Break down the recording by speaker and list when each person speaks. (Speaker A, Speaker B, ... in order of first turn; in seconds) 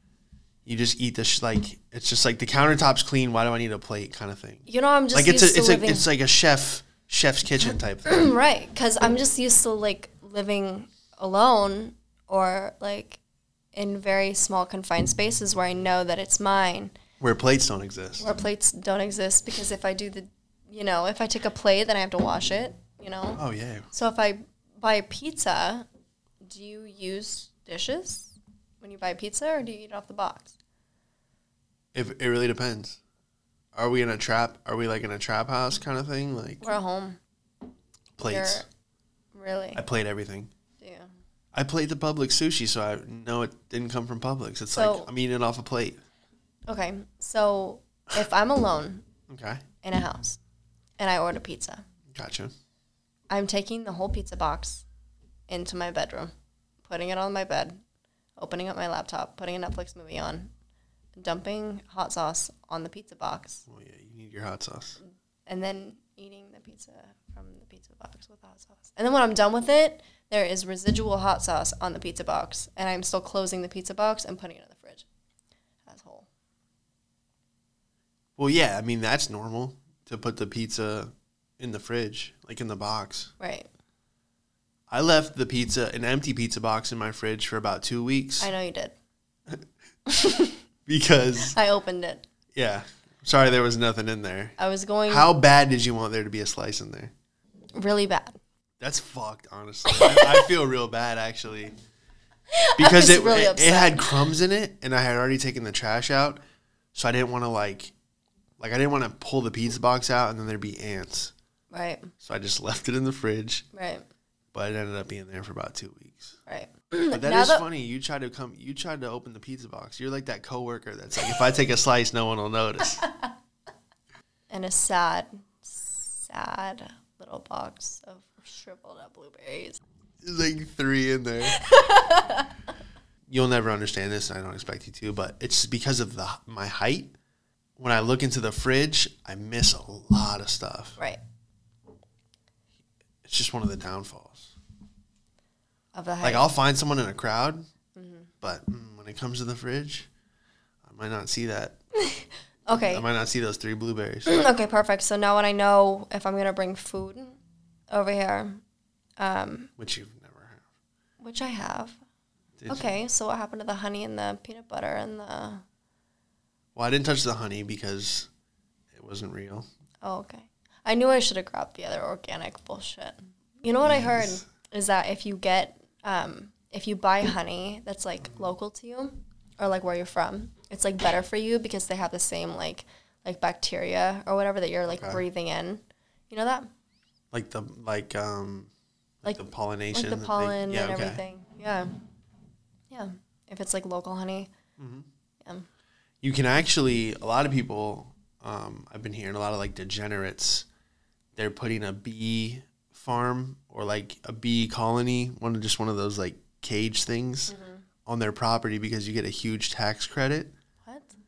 Speaker A: 0.6-8.3, 17.2-18.3, 23.3-23.9, 31.9-33.0, 33.7-36.7, 38.2-38.6, 39.7-40.5, 41.5-46.0, 49.3-49.6, 52.1-52.5, 63.7-65.0, 78.4-83.3, 84.9-88.5, 90.9-91.5, 92.5-94.5, 95.1-97.1, 98.8-101.7, 102.8-106.4, 106.9-107.9, 108.6-111.3, 112.2-113.7, 114.5-116.4, 117.1-123.1, 130.2-131.6, 133.3-137.1, 137.8-141.0, 143.2-144.5, 146.2-147.6, 148.4-150.1, 150.8-151.8, 152.7-154.5, 159.8-160.6, 162.6-162.9, 166.7-168.3, 168.9-169.7, 173.8-174.4, 184.9-185.2, 187.3-188.7, 189.2-191.2, 194.8-195.1, 196.2-200.7, 201.3-210.5
Speaker B: 4.7-6.0, 8.1-13.2, 13.7-16.9, 18.2-23.4, 23.9-25.9, 26.4-30.5, 36.6-37.2, 38.3-38.6, 39.3-39.8, 40.8-41.1, 44.7-45.1, 46.7-49.0, 49.8-50.4, 51.0-51.8, 53.3-54.8, 55.5-56.3, 56.8-57.8, 58.4-60.5, 61.1-63.6, 65.5-75.0, 75.8-76.3, 83.4-83.7, 88.4-88.9, 90.1-90.6, 91.5-92.2, 94.6-95.3, 97.7-98.4, 99.9-100.5, 102.5-104.3, 111.7-112.1, 113.7-114.0, 116.5-117.6, 123.0-123.3, 124.5-129.8, 131.5-132.5, 145.9-146.4, 147.9-148.3, 152.0-153.0, 154.3-157.4, 157.9-158.6, 159.2-159.7, 161.2-162.0, 162.7-165.6, 170.0-186.7, 189.2-191.9, 192.9-194.5, 207.5-207.8, 210.8-211.2